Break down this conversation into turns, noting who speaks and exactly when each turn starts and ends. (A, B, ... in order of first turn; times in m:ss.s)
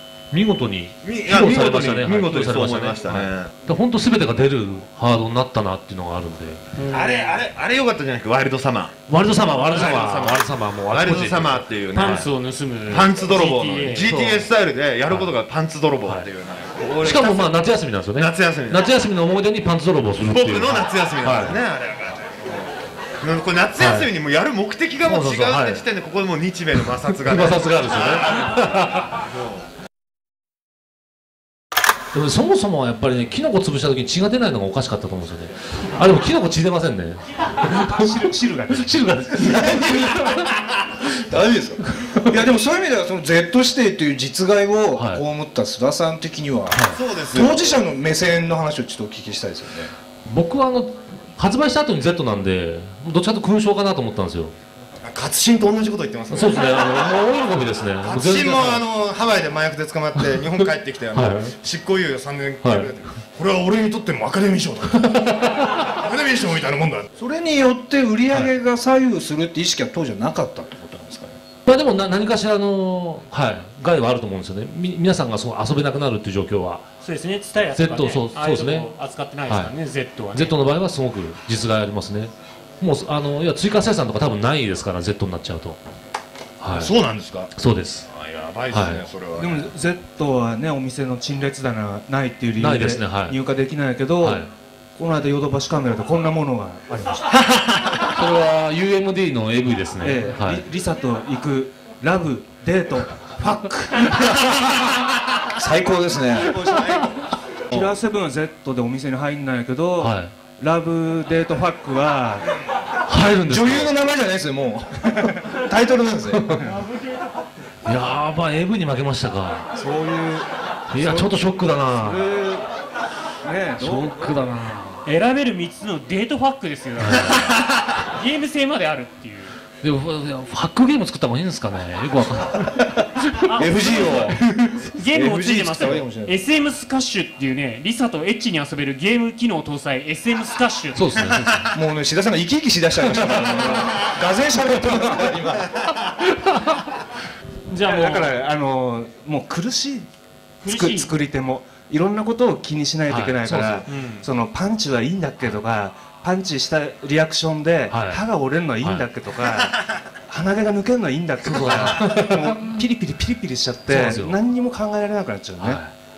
0:00.3-0:06.6 A
0:01.0-0:03.6 B
0:06.8-0:07.3 C
0:06.9-0:12.3 B
0:09.1-0:12.1 A
0:11.9-0:14.2 C
0:12.9-0:17.6 B
0:14.0-0:14.5 A
0:16.0-0:16.3 A
0:17.0-0:21.6 A
0:18.1-0:19.0 B
0:20.2-0:22.6 B
0:23.2-0:28.4 B
0:23.8-0:24.1 A
0:25.0-0:25.9 A
0:26.8-0:29.2 A
0:29.3-0:29.6 B
0:32.1-0:38.2 A
0:37.9-0:38.9 D
0:38.7-0:40.5 A
0:39.4-0:40.2 E
0:41.3-0:49.9 E
0:45.0-0:45.2 A
0:46.7-0:47.0 A
0:46.9-0:47.8 B
0:50.2-0:54.5 A
0:55.0-0:57.1 B
0:56.3-0:58.8 A
0:58.0-1:05.2 B
1:00.2-1:01.5 A
1:02.6-1:02.9 A
1:04.9-1:05.9 A
1:05.9-1:07.0 B
1:06.6-1:11.4 E
1:11.7-1:16.8 A
1:17.0-1:20.6 C
1:17.7-1:18.9 A
1:19.5-1:19.7 A
1:20.3-1:25.8 A
1:26.6-1:26.9 A
1:26.8-1:27.5 E
1:27.6-1:28.1 A
1:28.1-1:29.7 B
1:28.7-1:29.0 A
1:29.4-1:37.3 D
1:32.6-1:33.4 A
1:34.2-1:34.5 A
1:37.6-1:40.6 A
1:40.0-1:44.6 D
1:45.6-1:46.6 E
1:46.4-1:47.8 B
1:47.7-1:52.5 D
1:50.0-1:50.3 A
1:53.1-1:53.9 A
1:53.5-1:56.6 E
1:56.3-1:56.7 A
1:57.8-1:59.7 A
1:59.8-2:02.7 D
2:00.9-2:02.3 A
2:03.4-2:04.2 D
2:03.8-2:05.0 A
2:05.0-2:09.6 C
2:09.8-2:13.5 A
2:13.5-2:14.3 C
2:13.6-2:14.4 E
2:14.3-2:14.9 A
2:14.9-2:21.4 C
2:15.1-2:16.4 E
2:20.9-2:21.7 A
2:21.7-2:25.7 E
2:23.3-2:24.0 A
2:24.9-2:25.3 A
2:26.3-2:26.8 A
2:27.7-2:28.4 C
2:27.8-2:30.1 D
2:30.6-2:31.1 C
2:30.7-2:45.8 D
2:33.1-2:33.8 A
2:33.9-2:34.2 C
2:37.9-2:38.2 A
2:41.4-2:42.6 A
2:43.9-2:44.4 A
2:45.6-2:45.9 A